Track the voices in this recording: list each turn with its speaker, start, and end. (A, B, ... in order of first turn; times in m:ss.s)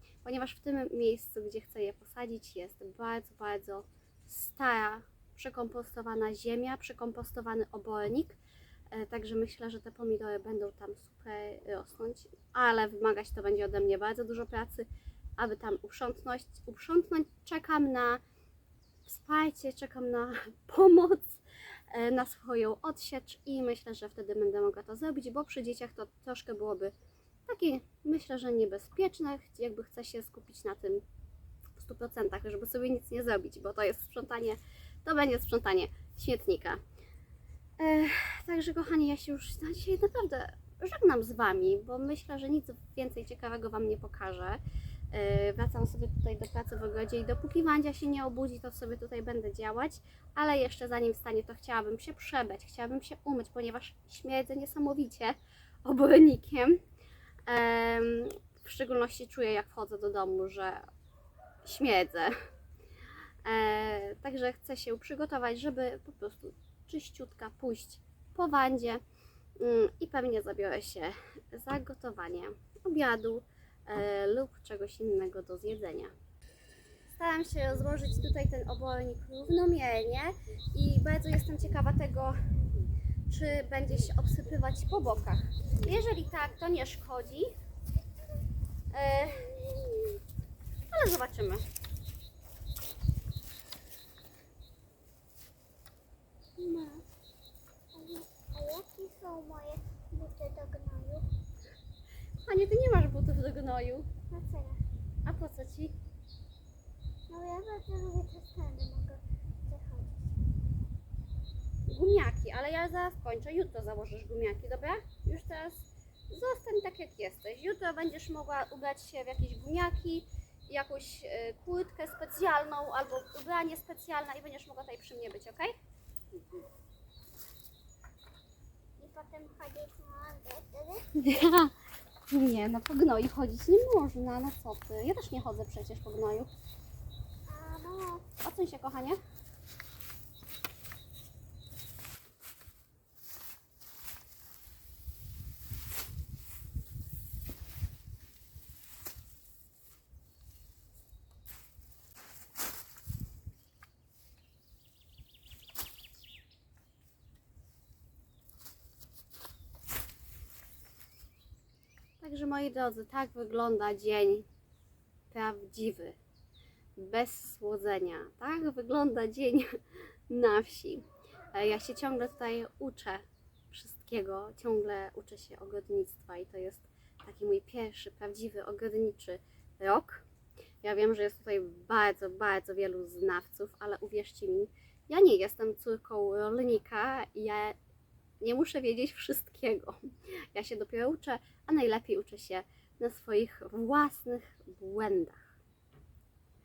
0:00.2-0:08.4 A
0:08.9-0:14.9 A
0:15.4-0:18.2 A
0:19.0-0:26.9 A
0:27.5-0:31.0 A
0:31.8-0:36.8 A
0:37.8-0:44.6 A
0:45.1-0:56.8 A
0:57.5-1:00.8 A
1:01.6-1:02.3 A
1:03.4-1:09.0 A
1:09.6-1:16.1 A
1:17.1-1:22.4 A
1:23.3-1:27.5 A
1:28.9-1:29.5 A
1:30.9-1:31.6 A
1:36.6-1:37.0 B
1:37.9-1:41.2 B
1:42.4-1:44.1 A
1:44.3-1:44.8 B
1:45.2-1:46.0 A
1:47.3-1:50.3 B
1:51.9-2:05.7 A
2:09.0-2:11.0 B
2:11.2-2:11.7 A
2:12.3-2:16.5 A
2:17.5-2:18.2 B
2:18.4-2:19.2 A
2:42.2-2:44.5 A
2:45.3-2:46.2 A
2:47.0-2:49.7 A
2:50.3-3:00.2 A
3:00.8-3:07.8 A
3:08.4-3:10.0 A
3:10.5-3:15.4 A